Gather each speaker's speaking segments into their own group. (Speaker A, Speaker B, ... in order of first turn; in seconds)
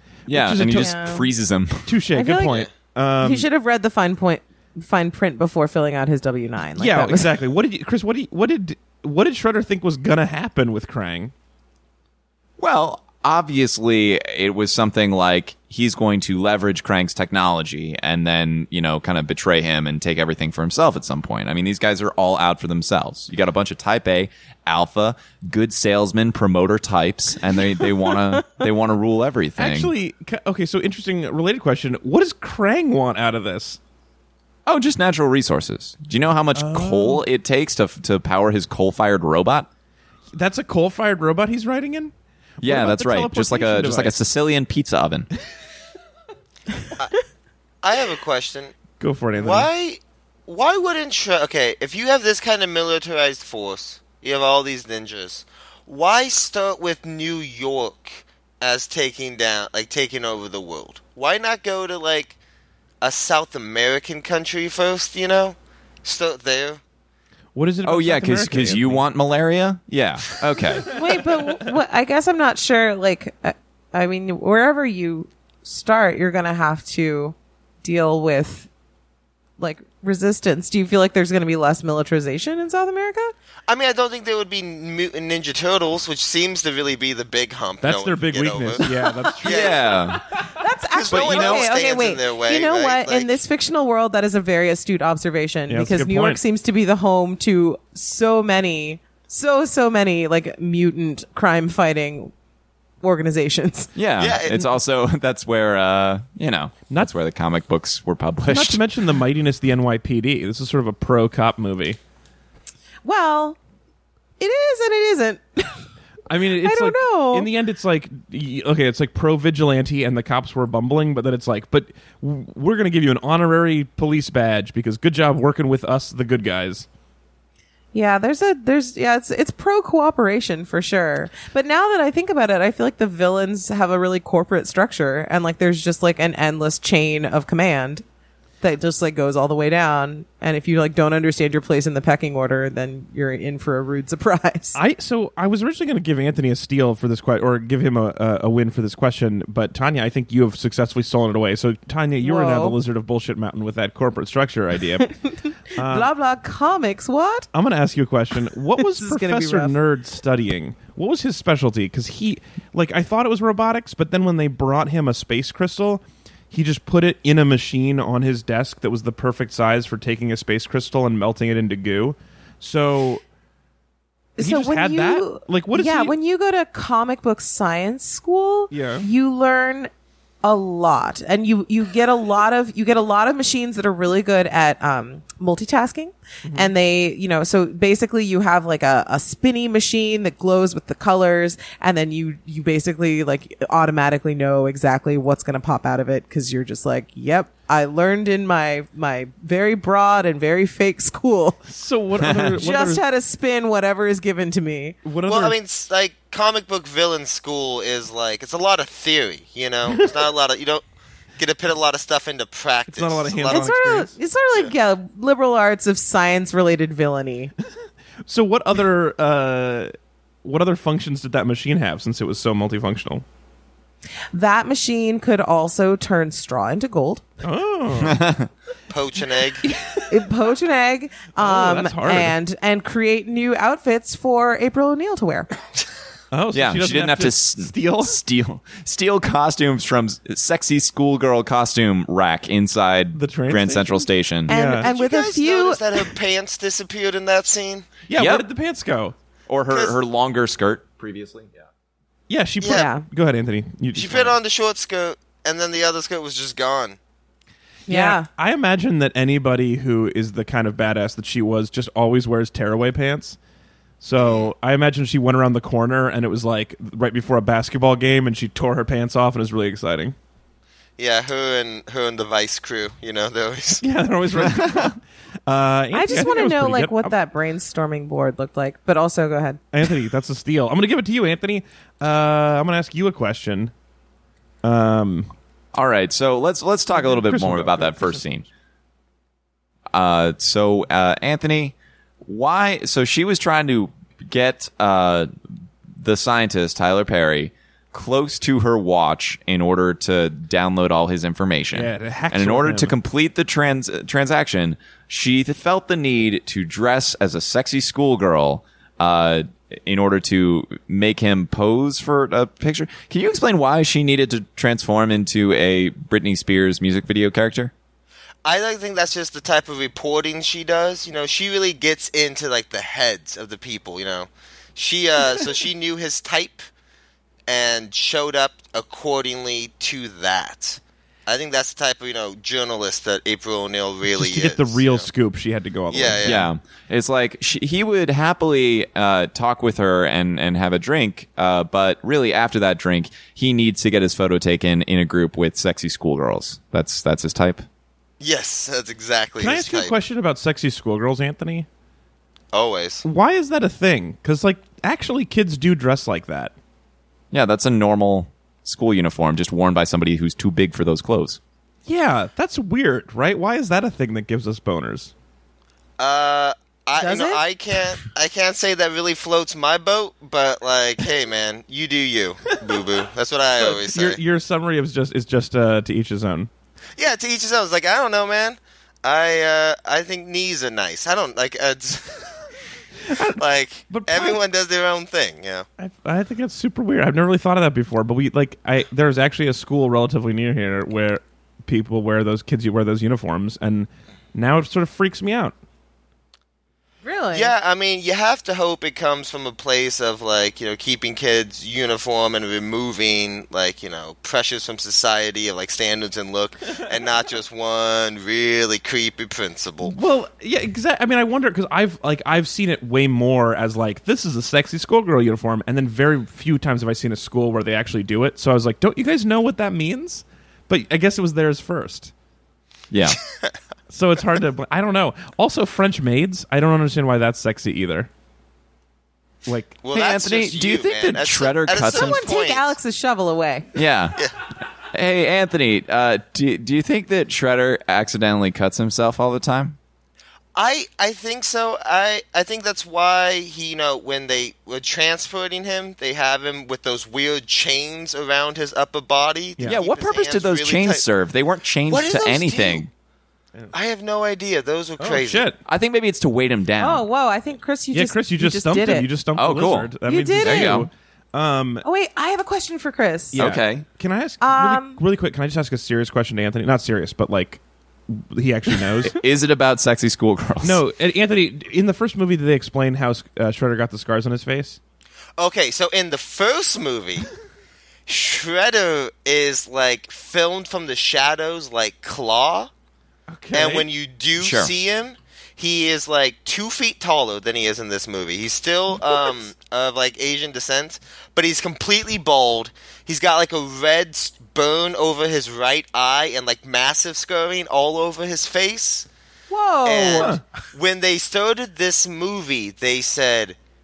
Speaker A: 0.3-1.0, 1.9-3.5, 6.8-11.3, 29.6-33.8, 36.5-37.2, 40.3-44.2, 49.0-49.7, 67.5-69.0, 70.9-71.4, 87.8-89.8, 95.7-96.4, 108.5-112.0, 116.3-126.9, 144.8-155.1, 155.8-156.1, 157.5-173.2, 174.4-176.2, 178.7-179.1, 186.4-186.7, 201.7-203.0, 205.0-205.6, 212.9-214.1, 218.3-219.9, 220.4-223.2, 227.4-228.2, 231.4-232.3, 236.3-238.2, 243.1-244.9, 248.1-249.2, 252.3-254.4, 257.9-263.4, 264.0-270.1, 273.8-277.1, 279.7-283.7, 284.6-285.3, 286.9-288.2, 301.7-302.9, 334.2-336.4, 349.4-351.7, 353.0-356.5, 361.9-365.1, 373.6-376.5, 383.1-384.4, 385.8-395.6, 409.8-422.1, 423.9-428.1, 429.5-429.8, 455.0-455.6, 457.9-461.9, 463.3-469.2, 470.6-474.8, 483.3-483.9, 500.1-500.4
Speaker B: 0.3-1.9, 12.6-29.9, 34.7-39.7, 42.6-45.3, 67.8-71.0, 89.4-90.2, 91.1-91.7, 104.0-108.8, 202.3-202.5, 228.0-228.5, 236.5-244.6, 248.2-248.5, 249.5-251.7, 285.7-288.5, 289.9-295.3, 296.0-317.7, 336.2-347.6, 357.3-361.4, 422.9-423.2, 429.9-432.2, 433.8-434.2, 434.9-439.8, 449.6-452.9, 455.6-457.1, 459.4-460.9, 463.4-463.9, 469.0-470.8, 484.4-484.7
Speaker C: 0.7-1.3, 2.1-2.7, 3.2-7.3, 70.9-78.7, 79.6-83.3, 90.5-102.3, 103.0-103.9, 113.0-113.6, 114.4-115.8, 116.6-117.5, 127.9-138.0, 138.6-144.8, 152.2-152.8, 155.8-157.5, 158.8-159.7, 174.4-179.9, 180.4-201.6, 202.6-205.0, 213.5-217.5, 224.3-227.3, 229.7-235.5, 244.5-246.1, 252.7-253.1, 257.9-258.3, 275.9-279.7, 367.0-367.4, 397.0-397.5, 431.8-433.7, 456.8-459.1, 460.1-460.9, 461.8-463.4, 464.4-465.0, 499.5-500.4
Speaker D: 47.8-48.7, 49.4-62.4, 63.0-66.8, 83.7-88.9, 89.4-89.9, 90.9-93.4, 104.2-104.8, 205.3-210.8, 211.4-213.7, 228.9-229.7, 244.8-247.9, 249.7-250.0, 252.6-252.9, 253.9-257.0, 264.2-264.5, 271.0-273.8, 318.4-326.6, 327.5-335.1, 335.9-336.5, 348.2-349.9, 352.5-353.0, 366.0-374.2, 377.0-382.3, 383.4-385.7, 397.3-410.0, 429.8-432.8, 440.6-451.0, 451.9-452.9, 453.7-455.5, 475.4-477.3, 478.1-482.7, 483.5-499.1, 499.9-503.6